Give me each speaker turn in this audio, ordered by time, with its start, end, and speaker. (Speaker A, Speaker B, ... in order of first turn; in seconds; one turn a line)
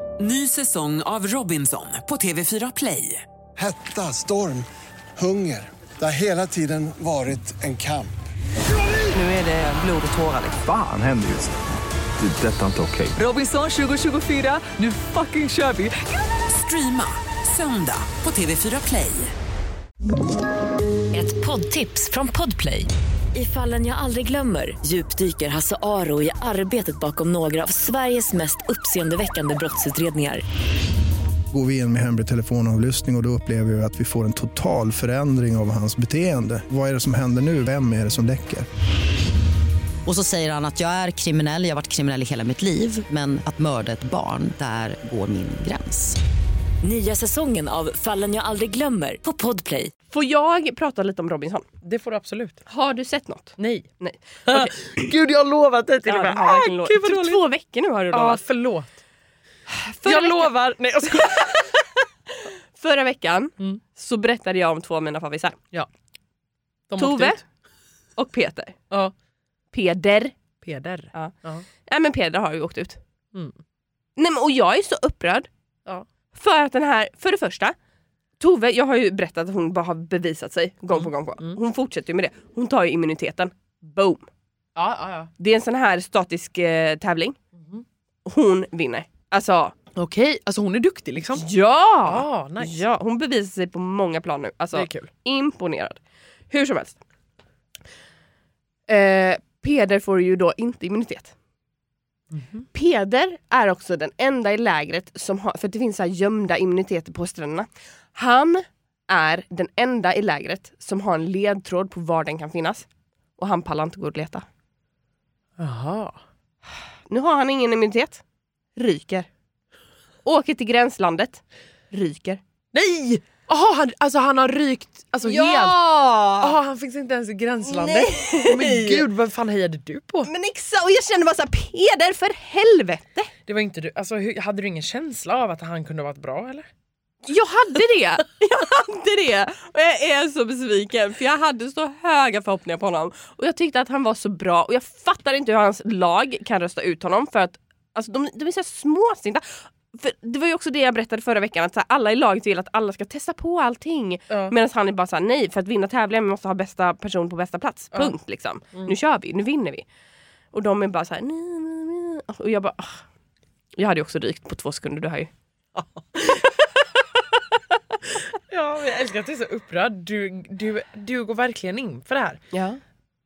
Speaker A: 0.2-3.2
Speaker B: 3.6-8.2
Speaker A: 9.2-10.3
Speaker C: 10.6-11.5
Speaker C: 12.2-13.2
Speaker A: 13.2-19.3
Speaker D: 21.1-30.4
Speaker E: 31.5-38.7
Speaker F: 40.1-46.2
Speaker D: 46.8-49.9
Speaker G: 50.1-51.7
Speaker H: 51.8-52.6
Speaker G: 52.7-54.8
Speaker H: 53.6-53.9
Speaker H: 54.5-57.4
Speaker G: 56.1-58.4
Speaker H: 58.1-59.0
Speaker G: 59.7-60.5
Speaker H: 60.0-61.7
Speaker G: 61.2-61.7
Speaker G: 62.8-65.6
Speaker H: 66.9-67.4
Speaker G: 67.0-67.4
Speaker G: 68.2-68.8
Speaker G: 69.7-70.3
Speaker H: 70.6-71.7
Speaker G: 71.9-73.0
Speaker G: 74.2-75.5
Speaker G: 76.3-77.8
Speaker G: 78.4-84.3
Speaker H: 80.9-81.6
Speaker H: 84.8-85.3
Speaker G: 85.4-87.4
Speaker H: 87.6-87.8
Speaker G: 88.3-89.8
Speaker H: 90.0-91.5
Speaker G: 91.4-96.0
Speaker H: 92.1-92.8
Speaker H: 94.7-95.1
Speaker G: 96.5-97.0
Speaker G: 98.9-101.3
Speaker H: 102.3-102.7
Speaker G: 102.7-112.9
Speaker G: 113.4-114.5
Speaker H: 115.6-116.2
Speaker G: 117.1-118.2
Speaker G: 118.8-119.3
Speaker G: 120.2-122.4
Speaker H: 122.7-125.8
Speaker G: 125.2-126.6
Speaker H: 126.4-130.3
Speaker G: 127.7-129.1
Speaker G: 130.3-133.3
Speaker H: 133.5-136.7
Speaker G: 137.2-159.9
Speaker H: 154.3-154.6
Speaker G: 160.5-163.0
Speaker G: 163.8-165.3
Speaker H: 165.8-166.5
Speaker H: 168.2-172.4
Speaker G: 172.5-172.8